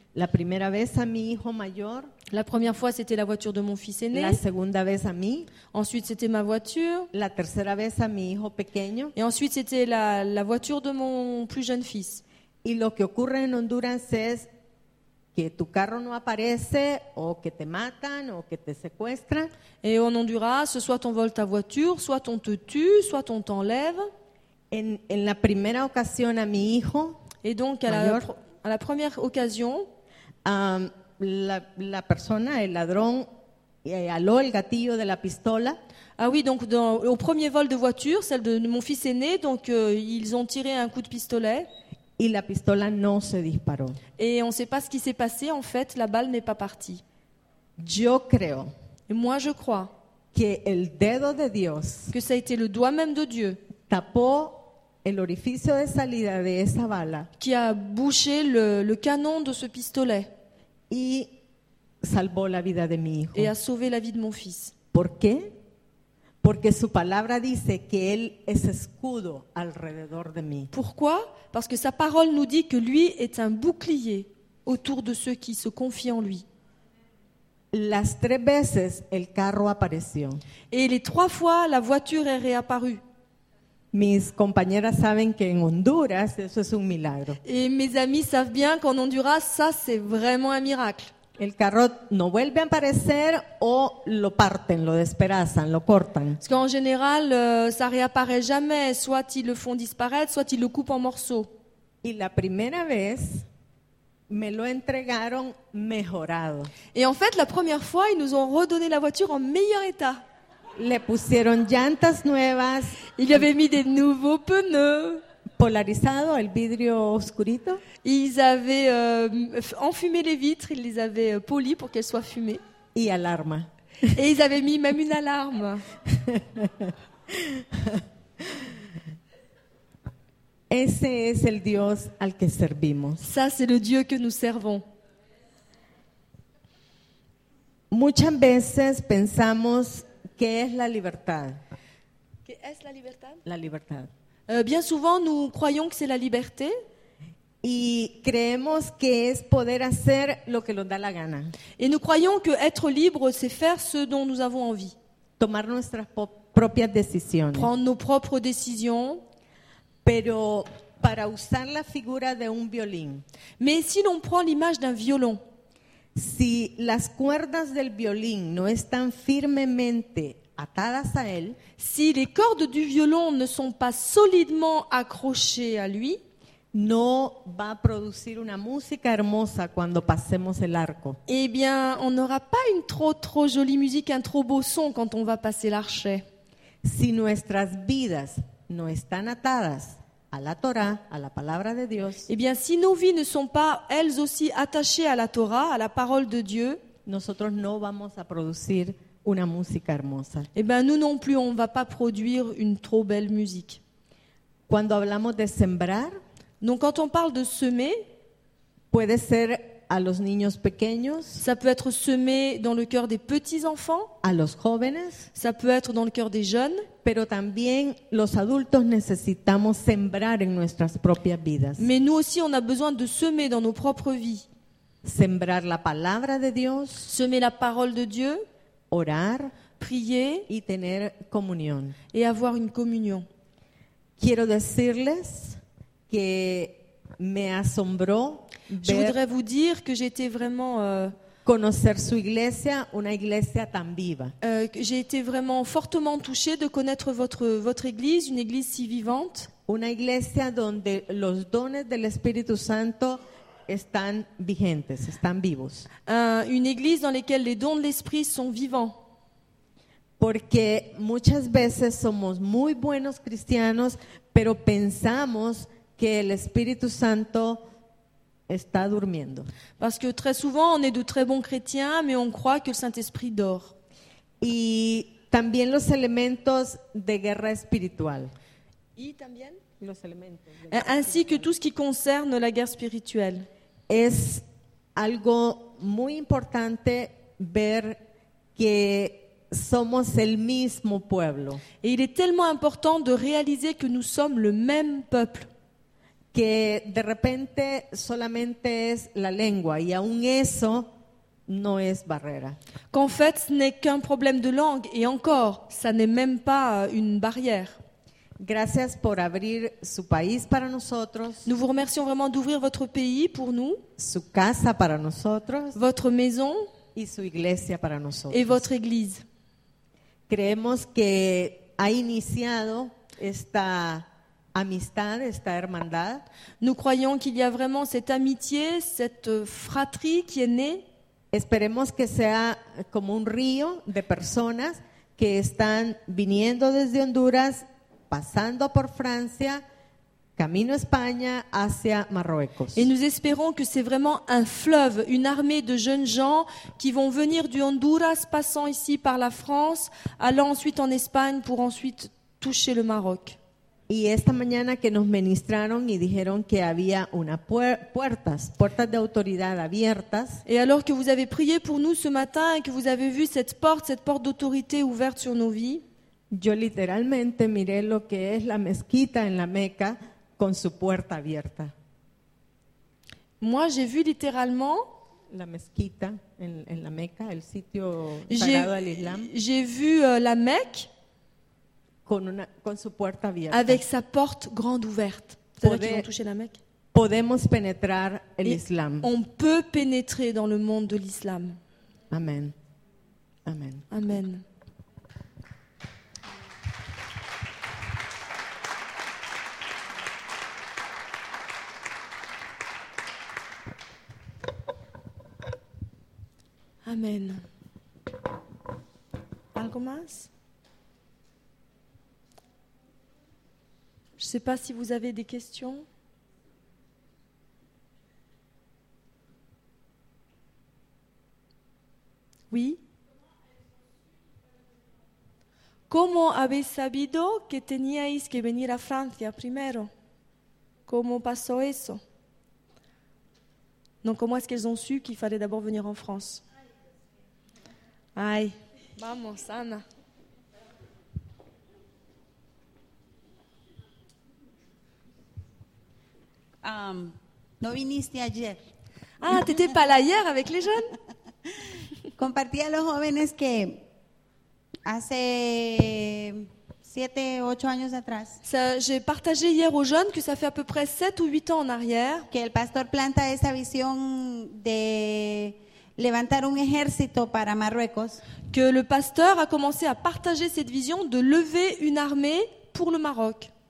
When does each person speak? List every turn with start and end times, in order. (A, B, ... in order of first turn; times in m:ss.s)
0:00.1-0:02.1 A
0:02.3-0:04.4 B
0:04.1-0:05.5 A
0:05.7-0:07.1 B
0:07.1-0:09.1 A
0:09.2-0:12.2 B
0:12.6-0:14.5 A
0:15.3-0:19.5 A
0:19.8-0:24.1 B
0:24.7-0:27.2 A
0:27.4-0:29.9 B
0:27.9-0:28.3 A
0:30.4-0:33.3 A
0:33.8-0:35.8 A
0:36.2-0:41.7 B
0:42.2-0:44.0 A
0:44.2-0:47.0 B
0:47.8-0:48.7 A
0:49.1-0:49.9 B
0:50.3-0:52.1 A
0:52.1-0:53.6 B
0:53.9-0:57.3 A
0:57.4-1:00.3 B
1:00.9-1:01.3 A
1:02.0-1:03.5 A
1:03.3-1:04.7 B
1:04.9-1:05.6 A
1:06.4-1:10.7 A
1:10.7-1:16.4 B
1:17.7-1:20.4 A
1:20.7-1:23.0 B
1:23.9-1:27.4 A
1:27.4-1:31.1 B
1:31.4-1:36.4 A
1:36.4-1:41.5 B
1:42.0-1:43.4 A
1:44.3-1:46.7 A
1:46.9-1:50.2 B
1:50.8-1:53.1 A
1:53.2-1:55.2 B
1:55.6-1:57.8 A
1:58.0-2:02.6 B
2:02.9-2:03.7 A
2:04.1-2:05.8 B
2:06.1-2:08.0 A
2:10.7-2:13.2 A
2:13.2-2:14.8 B
2:17.9-2:21.6 A
2:22.4-2:23.4 B
2:23.4-2:24.1 A
2:24.5-2:26.8 B
2:27.6-2:31.5 A
2:31.8-2:34.9 B
2:35.4-2:37.7 A
2:37.5-2:39.2 B
2:40.0-2:43.2 A
2:43.6-2:45.4 B
2:46.1-2:51.6 A
2:51.8-2:56.2 B
2:56.7-3:01.2 A
3:01.3-3:06.2 B
3:06.8-3:12.3 A
3:12.3-3:16.8 B
3:17.0-3:20.5 A
3:20.5-3:23.8 B
3:24.7-3:26.2 A
3:26.6-3:28.0 B
3:28.9-3:31.4 A
3:31.4-3:34.1 B
3:34.2-3:35.3 A
3:35.3-3:36.9 B
3:37.0-3:41.9 A
3:41.8-3:44.4 B
3:45.0-3:47.1 A
3:47.0-3:48.4 B
3:48.9-3:49.5 A
3:49.8-3:50.5 B
3:50.5-3:52.0 A
3:52.1-3:53.3 B
3:54.2-3:55.6 A
3:56.1-3:59.2 A
3:58.8-4:01.1 B
4:01.4-4:04.3 A
4:04.4-4:09.5 B
4:09.7-4:15.9 A
4:16.0-4:19.0 B
4:20.2-4:27.6 A
4:28.5-4:29.5 A
4:29.8-4:33.7 B
4:34.4-4:38.3 A
4:39.0-4:39.6 B
4:39.8-4:41.5 A
4:40.7-4:43.5 B
4:43.9-4:44.4 A
4:44.9-4:48.0 A
4:48.6-4:51.6 A
4:51.8-4:55.5 B
4:56.3-5:00.9 A
5:01.5-5:02.6 A
5:02.9-5:07.8 B
5:08.4-5:11.5 A
5:11.4-5:13.8 B
5:14.0-5:15.8 A
5:15.7-5:16.7 B
5:16.9-5:18.6 A
5:18.3-5:19.2 B
5:20.3-5:26.2 A
5:26.6-5:30.8 B
5:31.3-5:39.6 A
5:40.4-5:42.9 A
5:42.7-5:53.4 B
5:53.9-6:00.4 A
6:00.4-6:05.8 B
6:06.3-6:11.7 A
6:13.4-6:14.9 B
6:15.3-6:19.3 A
6:18.3-6:20.9 B
6:22.0-6:23.8 A
6:23.5-6:26.6 B
6:25.6-6:26.1 A
6:26.9-6:29.1 A
6:28.4-6:31.6 B
6:32.1-6:32.5 A
6:33.4-6:33.9 A
6:33.9-6:34.4 B
6:46.8-6:47.4 B
6:49.5-6:50.3 B
6:54.2-6:55.8 B
7:02.5-7:02.8 B
7:05.9-7:09.9 B
7:10.9-7:12.0 B
7:14.0-7:16.4 B
7:18.2-7:19.8 B
7:26.6-7:28.6 C
7:29.2-7:30.9 B
7:32.2-7:33.8 C
7:34.8-7:38.4 C
7:38.4-7:42.3 B
7:42.3-7:48.2 C
7:48.5-7:53.5 B